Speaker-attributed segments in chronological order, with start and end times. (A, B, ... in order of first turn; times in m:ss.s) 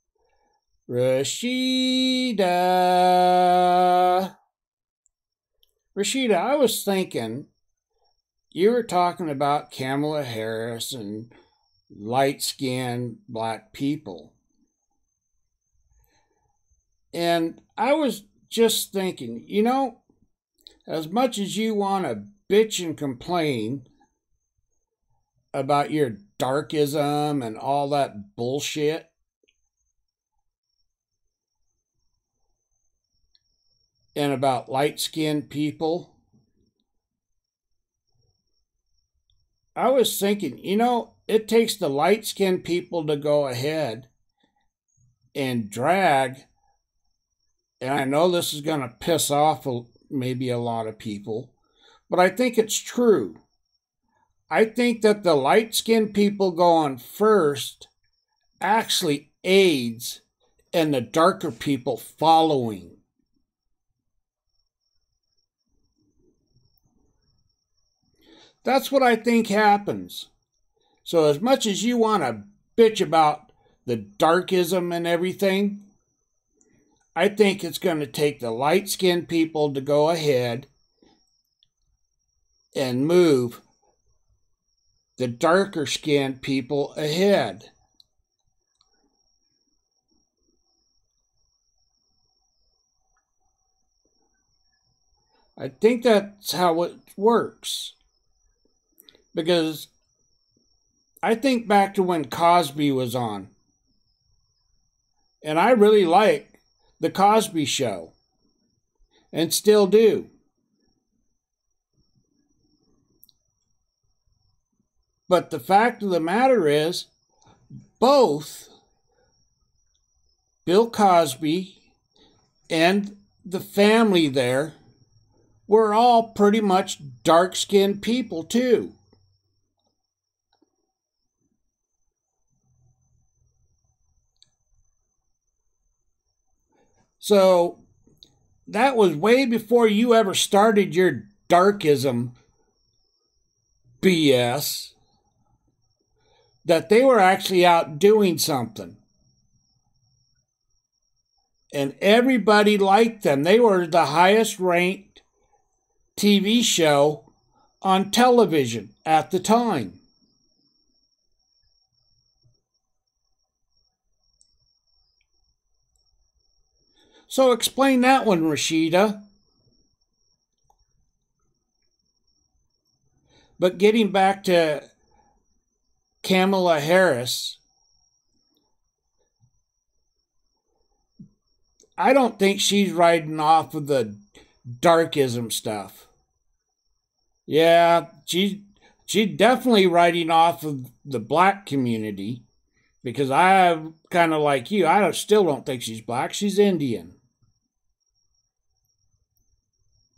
0:00.9-0:04.3 A
0:05.9-0:07.5 A
0:08.5-0:11.3 A
0:11.9-0:14.3 A
0:17.1-0:20.0 A
0:20.9-0:23.8 A
0:25.5-0:29.1 A
0:34.1-0:36.1 A
0:39.8-0:44.1 A
0:45.3-0:46.4 A
0:47.8-0:51.5 A
0:52.1-0:53.4 A
0:54.5-0:57.9 A
0:58.6-1:00.2 A
1:00.7-1:03.0 A
1:08.6-1:10.3 A
1:11.0-1:15.8 A
1:17.1-1:20.7 A
1:22.7-1:23.6 A
1:25.2-1:27.7 A
1:35.6-1:37.9 A
1:39.3-1:39.9 A
1:41.2-1:43.5 A
1:45.4-1:48.1 A
1:49.3-1:50.3 A
1:55.3-1:57.1 A
1:58.0-1:58.7 A
2:00.6-2:01.8 A
2:02.7-2:04.8 A
2:05.7-2:09.0 A
2:17.2-2:17.8 A
2:18.7-2:22.3 A
2:24.0-2:24.9 A
2:26.6-2:29.0 A
2:31.7-2:35.2 A
2:36.1-2:37.2 A
2:37.8-2:40.0 A
2:47.3-2:49.2 A
2:53.6-2:54.9 A
2:56.2-2:57.6 A
3:02.0-3:04.2 A
3:04.8-3:06.1 A
3:07.5-3:12.4 A
3:13.0-3:17.2 A